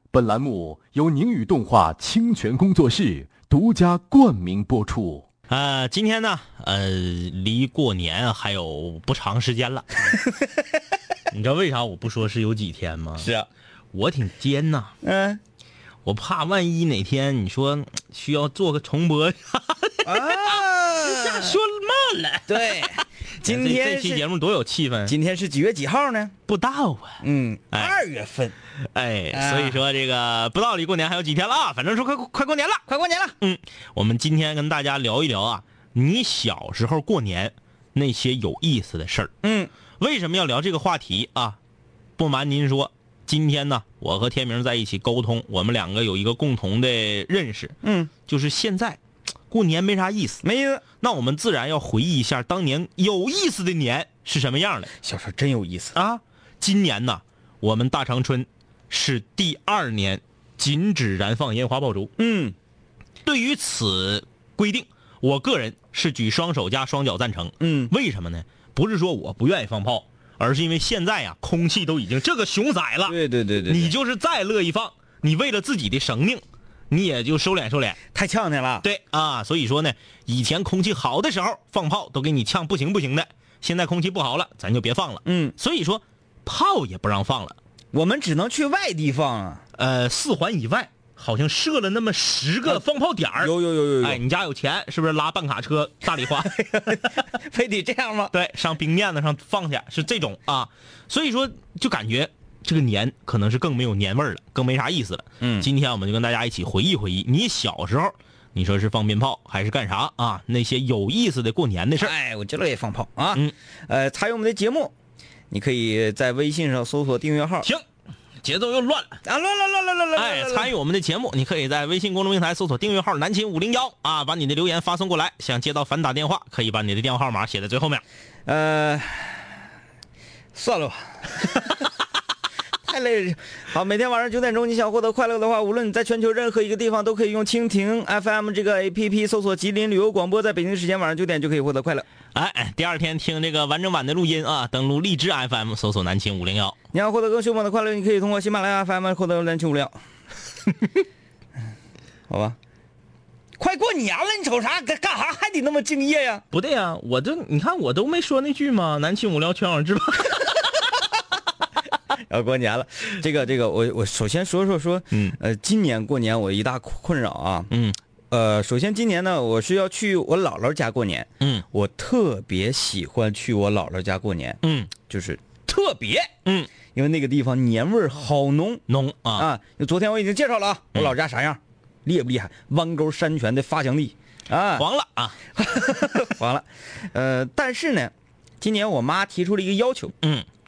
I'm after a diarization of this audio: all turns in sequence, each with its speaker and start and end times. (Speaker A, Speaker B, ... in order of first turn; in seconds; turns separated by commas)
Speaker A: 0.1-5.3, Speaker B: 5.5-9.9, Speaker B: 11.3-13.3, Speaker C: 13.2-13.5, Speaker B: 13.9-14.9, Speaker C: 15.0-15.4, Speaker B: 16.1-25.1, Speaker C: 20.1-21.6, Speaker C: 22.5-24.2, Speaker C: 25.1-26.3, Speaker B: 26.5-27.9, Speaker C: 27.2-28.6, Speaker B: 28.9-32.8, Speaker C: 29.3-29.8, Speaker C: 32.9-33.4, Speaker B: 33.4-39.3, Speaker C: 39.4-39.7, Speaker B: 40.0-41.6, Speaker B: 42.2-47.8, Speaker C: 47.8-48.1, Speaker B: 48.3-49.0, Speaker B: 49.5-50.4, Speaker C: 50.4-50.8, Speaker B: 51.0-54.9, Speaker C: 55.0-56.0, Speaker B: 56.0-62.1, Speaker C: 62.2-62.5, Speaker B: 63.2-78.0, Speaker C: 67.6-67.9, Speaker C: 73.1-73.9, Speaker C: 78.1-78.8, Speaker B: 78.8-87.6, Speaker C: 85.2-85.5, Speaker C: 87.9-89.6, Speaker B: 89.8-96.6, Speaker C: 93.4-94.2, Speaker C: 96.4-98.3, Speaker B: 98.3-112.1, Speaker C: 105.4-105.7, Speaker C: 112.0-114.9, Speaker C: 115.5-117.7, Speaker B: 118.4-119.2, Speaker C: 119.2-120.7, Speaker B: 120.2-128.0, Speaker C: 128.5-129.5, Speaker C: 130.6-131.8, Speaker C: 132.8-142.1, Speaker B: 142.3-146.8, Speaker C: 146.9-150.0, Speaker C: 152.3-152.6, Speaker C: 153.6-156.4, Speaker B: 156.5-160.6, Speaker C: 162.3-167.7, Speaker B: 165.1-165.4, Speaker B: 167.7-168.0, Speaker C: 168.3-176.3, Speaker B: 171.4-171.7, Speaker B: 174.6-174.9, Speaker B: 176.4-176.7, Speaker C: 176.9-178.8, Speaker B: 178.9-179.5, Speaker C: 179.3-184.9, Speaker B: 184.8-185.4, Speaker C: 185.6-190.1